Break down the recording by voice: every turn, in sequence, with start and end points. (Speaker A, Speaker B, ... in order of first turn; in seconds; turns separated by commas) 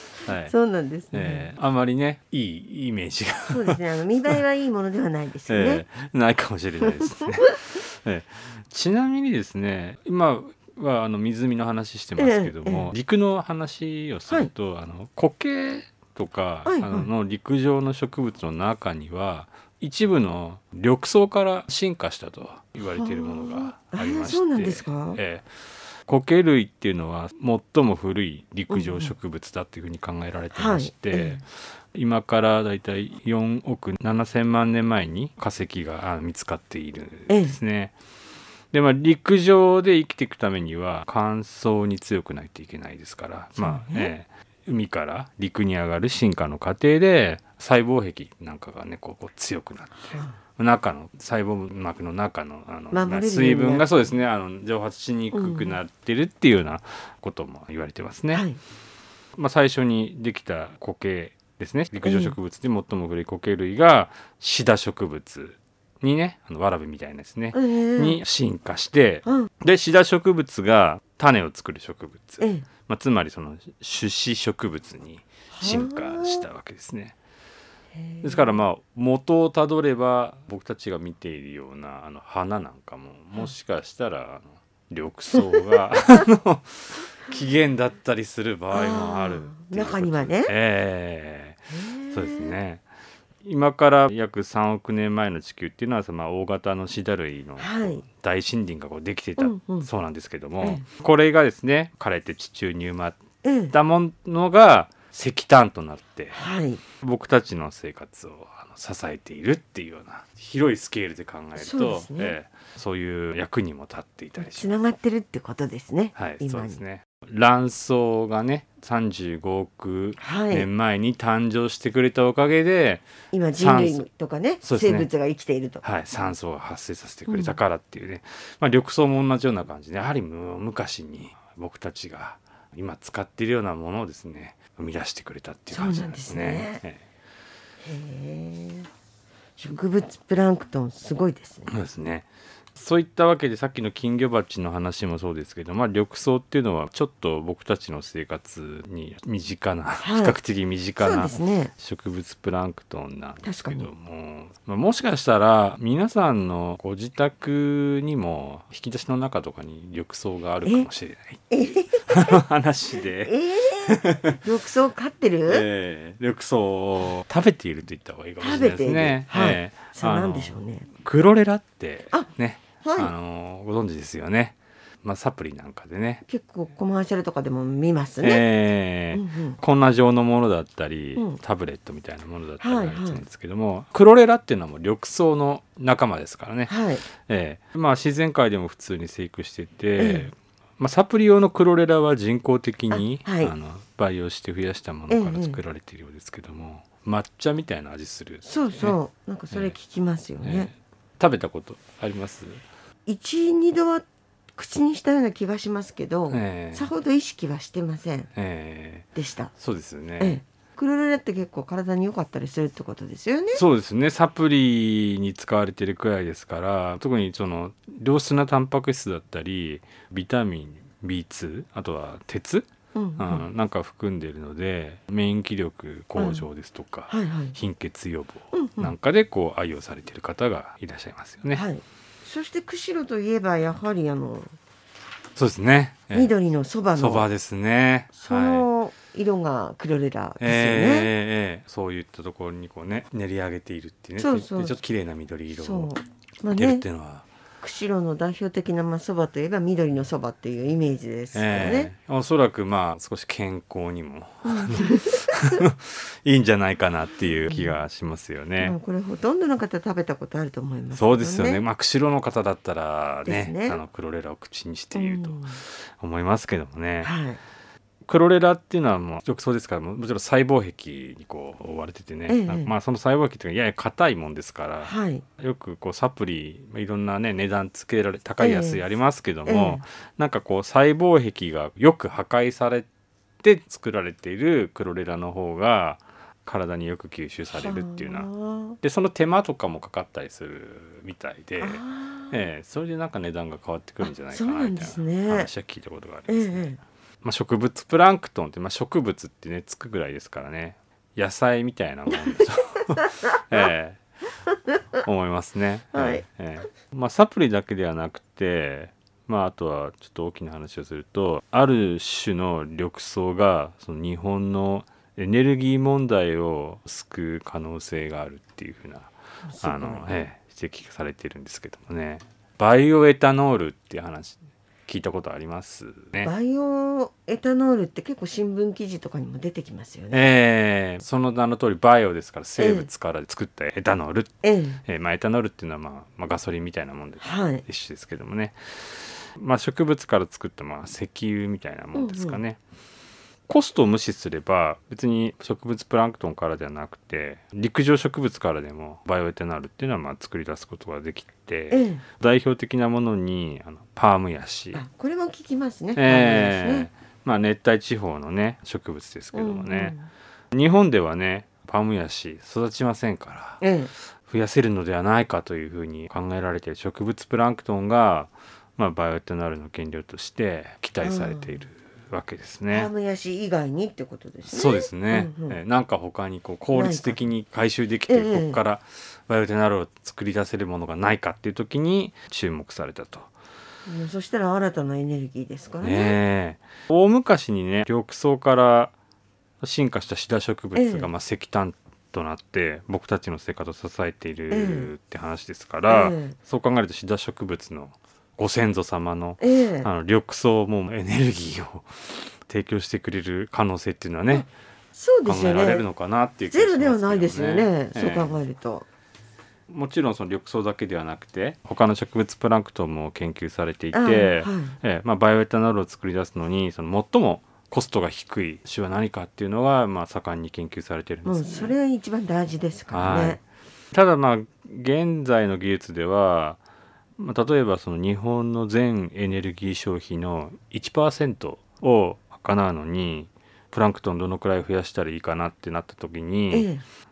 Speaker A: 0.2-0.5, Speaker B: 0.5-1.5, Speaker A: 1.1-4.3, Speaker B: 3.5-5.8, Speaker A: 5.5-38.0, Speaker B: 12.2-12.9, Speaker B: 16.7-17.1, Speaker B: 22.8-25.2, Speaker B: 28.7-29.1, Speaker B: 30.5-31.4, Speaker B: 37.3-37.6, Speaker A: 38.7-58.5, Speaker B: 43.6-44.1, Speaker B: 50.0-50.4, Speaker B: 52.9-54.1, Speaker B: 55.3-55.8, Speaker B: 58.3-58.6, Speaker A: 59.4-77.2, Speaker B: 62.0-62.4, Speaker B: 67.5-68.2, Speaker B: 72.4-72.7, Speaker B: 75.5-76.5, Speaker B: 78.0-78.6, Speaker A: 78.2-92.8, Speaker B: 85.5-85.7, Speaker B: 88.7-90.5, Speaker B: 91.7-92.5, Speaker A: 93.4-103.2, Speaker B: 97.6-98.0, Speaker B: 99.4-99.9, Speaker B: 100.6-100.9, Speaker B: 103.4-103.7, Speaker A: 103.7-106.4, Speaker B: 106.3-106.8, Speaker A: 107.0-114.7, Speaker B: 111.6-112.4, Speaker B: 114.4-116.8, Speaker A: 116.2-123.0, Speaker B: 120.2-120.7, Speaker B: 123.3-125.8, Speaker A: 123.6-124.1, Speaker A: 124.6-125.1, Speaker A: 125.8-137.0, Speaker B: 127.3-127.6, Speaker B: 135.7-136.8, Speaker B: 137.8-138.9, Speaker B: 139.6-141.7, Speaker A: 141.7-161.4, Speaker B: 150.0-150.4, Speaker B: 151.0-151.7, Speaker B: 153.4-153.9, Speaker B: 161.5-162.4, Speaker A: 162.1-164.4, Speaker B: 163.3-165.7, Speaker A: 165.5-176.2, Speaker B: 168.4-170.9, Speaker B: 172.8-173.1, Speaker B: 176.2-178.4, Speaker A: 178.2-199.0, Speaker B: 179.1-179.6, Speaker B: 182.6-183.2, Speaker B: 186.7-187.0, Speaker B: 190.0-190.3, Speaker B: 192.9-193.5, Speaker B: 195.1-195.6, Speaker B: 198.4-200.7, Speaker A: 199.5-199.8, Speaker A: 200.4-202.6, Speaker B: 203.1-208.3, Speaker A: 206.3-206.9, Speaker A: 208.3-210.4, Speaker B: 209.2-209.5, Speaker B: 210.2-213.6, Speaker A: 213.5-231.6, Speaker B: 222.9-223.5, Speaker B: 226.2-226.5, Speaker B: 227.1-227.6, Speaker B: 228.5-228.9, Speaker B: 231.5-234.5, Speaker A: 235.4-236.3, Speaker B: 236.1-237.3, Speaker A: 237.0-238.7, Speaker B: 238.2-241.1, Speaker A: 240.4-245.9, Speaker B: 244.2-244.8, Speaker B: 245.5-246.8, Speaker A: 246.5-247.3, Speaker B: 247.6-251.9, Speaker A: 251.3-258.8, Speaker B: 254.4-255.6, Speaker B: 257.5-257.8, Speaker B: 258.6-261.6, Speaker A: 260.9-267.1, Speaker B: 263.3-263.8, Speaker B: 264.9-265.6, Speaker B: 267.0-267.4, Speaker A: 268.1-282.9, Speaker B: 272.3-272.7, Speaker B: 274.8-275.2, Speaker B: 278.4-278.9, Speaker B: 279.5-279.8, Speaker A: 283.4-288.3, Speaker B: 287.5-288.8, Speaker A: 288.8-304.0, Speaker B: 291.6-292.4, Speaker B: 294.0-295.5, Speaker B: 296.3-296.8, Speaker B: 302.1-302.5, Speaker A: 305.0-319.1, Speaker B: 305.9-306.3, Speaker B: 319.5-320.1, Speaker A: 319.6-326.3, Speaker B: 326.2-330.3, Speaker A: 330.1-334.3, Speaker B: 332.6-332.9, Speaker B: 334.4-334.8, Speaker A: 334.9-342.6, Speaker B: 337.2-337.6, Speaker B: 341.9-342.4, Speaker A: 343.5-354.8, Speaker B: 351.7-352.0, Speaker B: 354.7-356.9, Speaker A: 356.0-360.0, Speaker B: 359.3-360.1, Speaker A: 360.5-363.6, Speaker B: 363.6-363.9, Speaker A: 364.2-372.9, Speaker B: 371.0-371.6, Speaker B: 372.7-375.6, Speaker A: 374.5-383.3, Speaker B: 376.7-377.2, Speaker B: 378.1-378.6, Speaker B: 383.9-386.2, Speaker A: 385.8-388.9, Speaker A: 389.6-404.5, Speaker B: 390.8-391.1, Speaker B: 394.5-394.9, Speaker B: 395.9-396.4, Speaker B: 399.4-399.9, Speaker B: 404.3-405.9, Speaker A: 405.2-408.4, Speaker B: 406.5-408.9, Speaker A: 409.7-421.7, Speaker B: 413.9-414.8, Speaker B: 421.2-423.4, Speaker A: 422.9-426.6, Speaker A: 427.2-436.7, Speaker B: 436.5-436.8